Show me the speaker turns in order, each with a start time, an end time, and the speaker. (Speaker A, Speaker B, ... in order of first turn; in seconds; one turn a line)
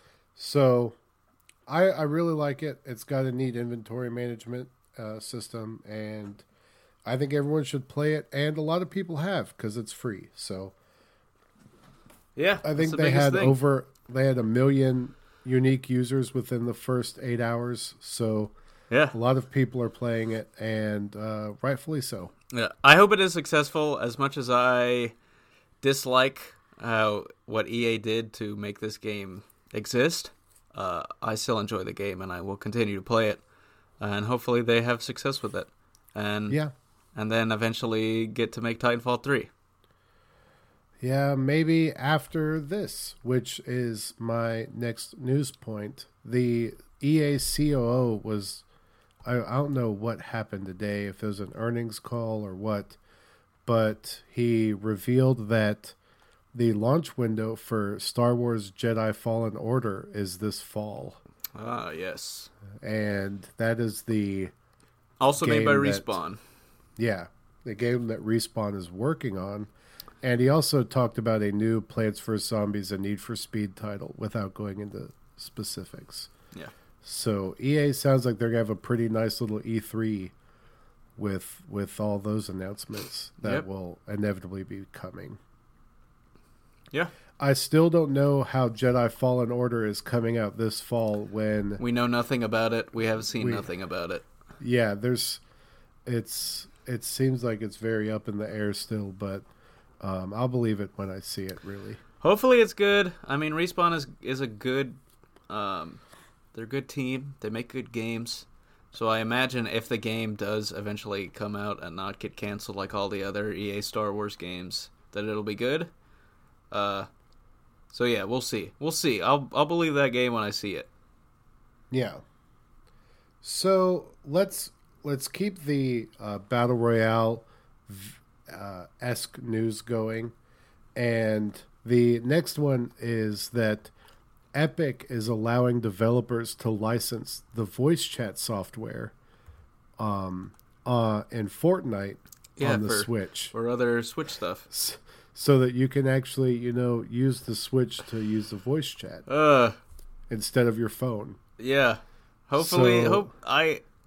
Speaker A: 0.4-1.0
Speaker A: 1.7-6.5
Speaker A: 7.1-10.7
Speaker B: 12.4-13.6
Speaker A: 12.6-18.5
Speaker A: 19.1-22.3
Speaker B: 22.5-25.1
Speaker B: 25.8-33.4
Speaker B: 34.0-36.6
Speaker B: 37.1-39.5
Speaker A: 41.0-48.6
Speaker A: 49.2-53.0
Speaker A: 53.7-56.0
Speaker A: 56.5-61.2
Speaker B: 61.5-62.5
Speaker A: 62.8-64.5
Speaker B: 65.2-66.4
Speaker A: 65.4-66.1
Speaker A: 67.0-69.7
Speaker A: 70.2-76.3
Speaker A: 77.0-80.3
Speaker A: 81.2-85.4
Speaker A: 87.4-91.8
Speaker B: 91.8-94.2
Speaker A: 94.6-95.4
Speaker A: 96.1-99.5
Speaker A: 100.0-102.0
Speaker B: 102.2-106.0
Speaker B: 106.5-115.9
Speaker B: 116.7-117.1
Speaker B: 117.9-120.9
Speaker A: 121.9-122.2
Speaker A: 123.4-130.3
Speaker A: 131.0-133.9
Speaker A: 134.5-139.1
Speaker A: 140.0-143.5
Speaker B: 142.6-144.7
Speaker A: 144.7-149.2
Speaker B: 149.3-149.8
Speaker A: 150.3-151.4
Speaker B: 151.6-153.8
Speaker A: 152.6-153.3